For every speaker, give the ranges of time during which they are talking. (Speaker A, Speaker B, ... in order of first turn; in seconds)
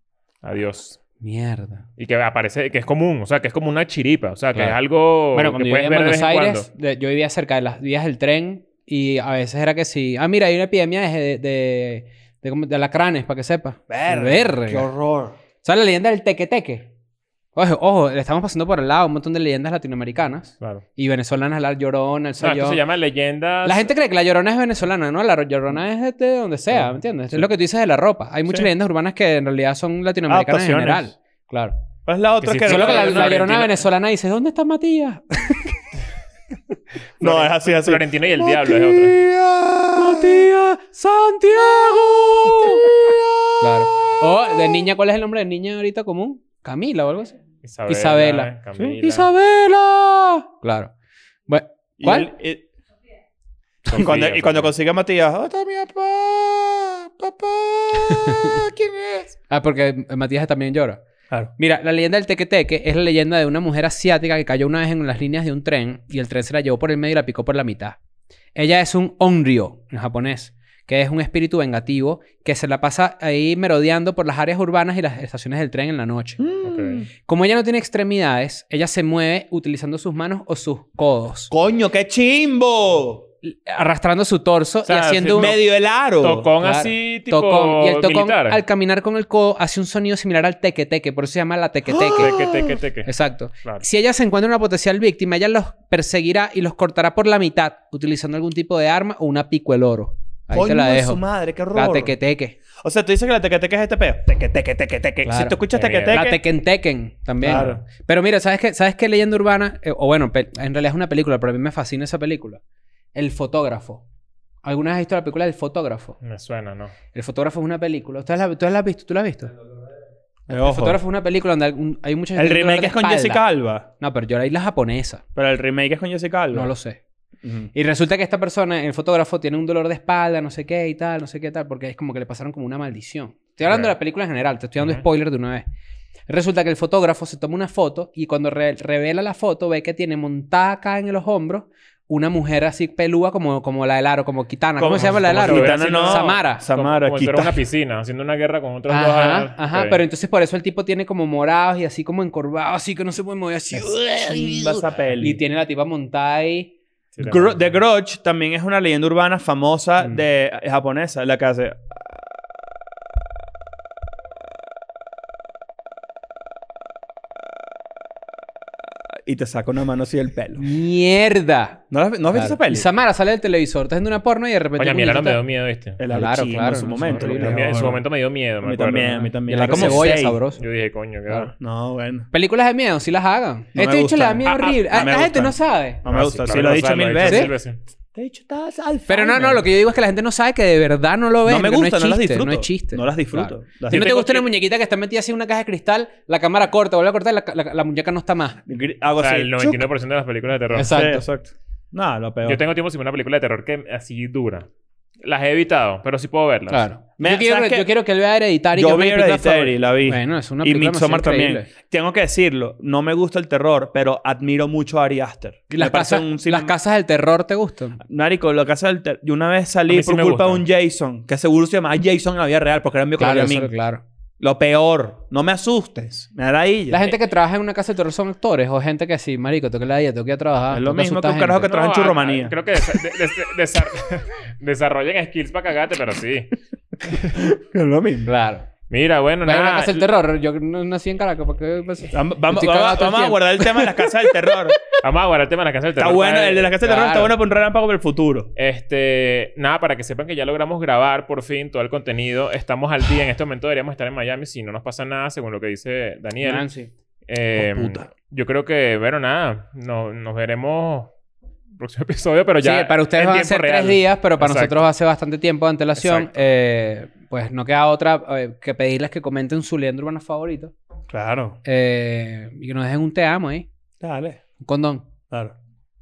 Speaker A: 0.4-1.0, 2.0-6.7, 22.4-23.9, 32.4-33.7, 37.2-39.2, 47.6-49.3, 53.9-54.7, 76.6-77.0, 84.8-85.6, 86.2-88.6, 92.2-93.1, 105.7-106.2, 107.4-107.8, 116.2-116.9, 145.0-150.0, 157.1-157.7, 174.8-176.0, 177.0-181.5, 186.0-187.8, 193.9-194.5, 199.2-201.0, 202.4-204.7, 205.2-206.9, 219.9-220.6, 231.7-236.5, 238.9-240.1, 245.0-246.7, 248.6-256.7, 257.3-261.1, 261.8-264.9, 266.0-266.3
Speaker B: 1.2-1.8, 5.3-14.9, 15.6-16.9, 17.5-22.8, 23.6-31.8, 32.6-35.7, 39.9-42.9, 43.6-50.9, 51.5-52.3, 58.1-58.6, 59.5-61.0, 61.6-68.0, 68.5-76.4, 77.2-81.5, 83.4-85.5, 86.6-92.3, 93.0-101.2, 101.7-102.5, 105.2-112.6, 113.1-114.0, 114.6-116.2, 117.1-119.5, 120.5-123.5, 124.0-125.2, 126.5-127.0, 127.7-135.6, 136.3-146.6, 148.9-156.7, 170.6-175.4, 176.1-177.9, 179.5-180.6, 182.3-186.0, 187.2-187.5, 189.1-198.6, 200.7-201.2, 206.7-211.7, 215.7-218.0, 223.2-224.0, 226.9-231.7, 238.2-238.7, 239.4-244.1, 246.8-247.3, 256.4-256.9, 262.6-270.7, 271.6-273.7, 274.6-275.1
Speaker C: 13.9-15.3, 30.3-31.1, 32.0-33.5, 37.2-40.5, 41.6-43.5, 52.0-52.7, 53.9-59.4, 76.4-77.1, 81.5-83.3, 85.3-86.5, 91.9-92.8, 100.5-102.1, 102.8-106.4, 107.4-107.8, 120.5-121.0, 122.3-123.9, 125.3-126.7, 127.4-127.7, 144.8-147.6, 153.7-155.4, 157.2-161.8, 169.2-170.6, 171.9-172.9, 176.0-178.0, 178.6-180.4, 181.6-182.3, 183.7-187.5, 188.1-189.6, 191.4-194.1, 198.7-199.9, 200.8-202.6, 207.2-207.9, 208.7-216.7, 218.0-223.7, 224.4-227.1, 230.7-232.6, 237.3-238.3, 242.1-244.8, 246.0-248.5, 257.5-258.1, 271.1-271.6, 274.0-274.4, 275.3-275.6